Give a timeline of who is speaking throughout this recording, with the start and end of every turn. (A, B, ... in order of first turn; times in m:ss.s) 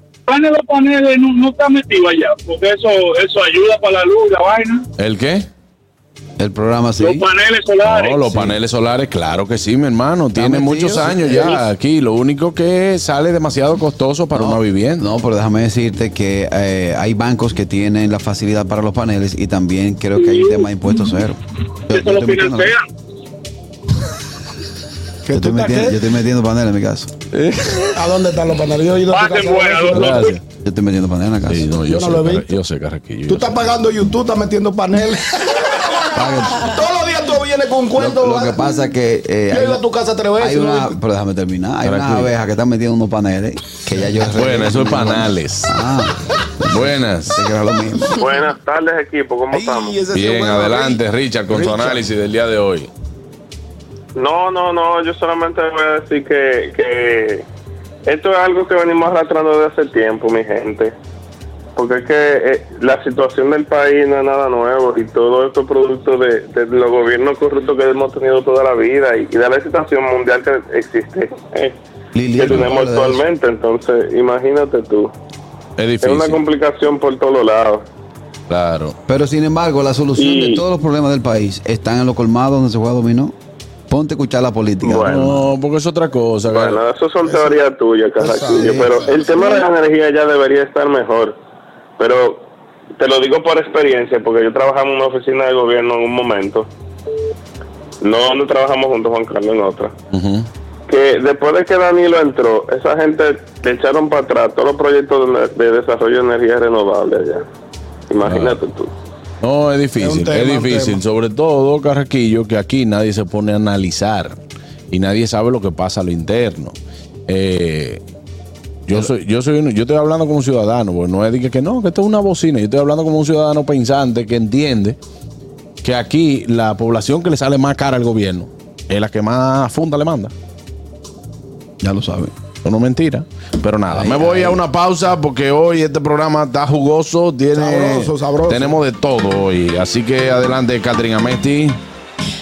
0:00.3-0:04.8 A
0:05.0-0:05.5 B
0:06.4-0:07.3 C
0:07.0-0:08.3 A
0:07.8-0:15.0 B
0:08.3-0:08.6 C
0:10.3-0:11.7 C
0:14.3-0:22.7 C
0:20.2-0:20.7 A
0:21.9-0:22.8 A
0:25.2-0:26.0 D
0:25.3-0:27.1 C
0:27.3-0:28.0 B
0:27.8-0:30.3 D
0:29.1-0:30.4 A
0:29.9-0:30.4 B
0:30.6-0:31.7 C
0:31.5-0:33.6 B
0:31.8-0:32.5 D
0:33.3-0:38.8 D
0:36.1-0:36.7 C
0:38.0-0:39.8 C
0:39.5-0:41.0 D
0:40.4-0:48.3 C
0:41.8-0:42.3 B
0:44.3-0:45.7 B
0:46.7-0:47.4 B
0:48.2-0:50.0 E
0:49.5-0:52.0 D
0:50.1-0:52.9 B
0:54.2-0:57.4 E
0:58.0-1:00.9 E
1:01.8-1:11.8 E
1:12.1-1:13.2 C
1:12.3-1:15.1 E
1:15.8-1:16.4 B
1:16.0-1:17.8 E
1:18.5-1:19.0 B
1:19.1-1:23.3 C
1:20.2-1:20.6 E
1:23.9-1:25.5 C
1:24.8-1:25.3 E
1:25.0-1:26.8 B
1:26.5-1:31.4 E
1:27.2-1:27.6 D
1:28.2-1:29.5 D
1:28.2-1:29.2 C
1:32.0-1:32.4 E
1:33.0-1:36.7 E
1:38.0-1:39.9 E
1:40.1-1:40.5 B
1:40.9-1:47.4 E
1:48.1-1:48.9 E
1:48.2-1:48.6 B
1:49.4-1:54.4 B
1:50.0-1:51.0 D
1:54.9-1:56.8 B
1:57.3-1:58.0 B
1:58.9-2:05.0 B
2:05.8-2:10.3 B
2:11.8-2:12.3 C
2:12.6-2:21.8 B
2:13.9-2:14.6 C
2:17.5-2:18.8 D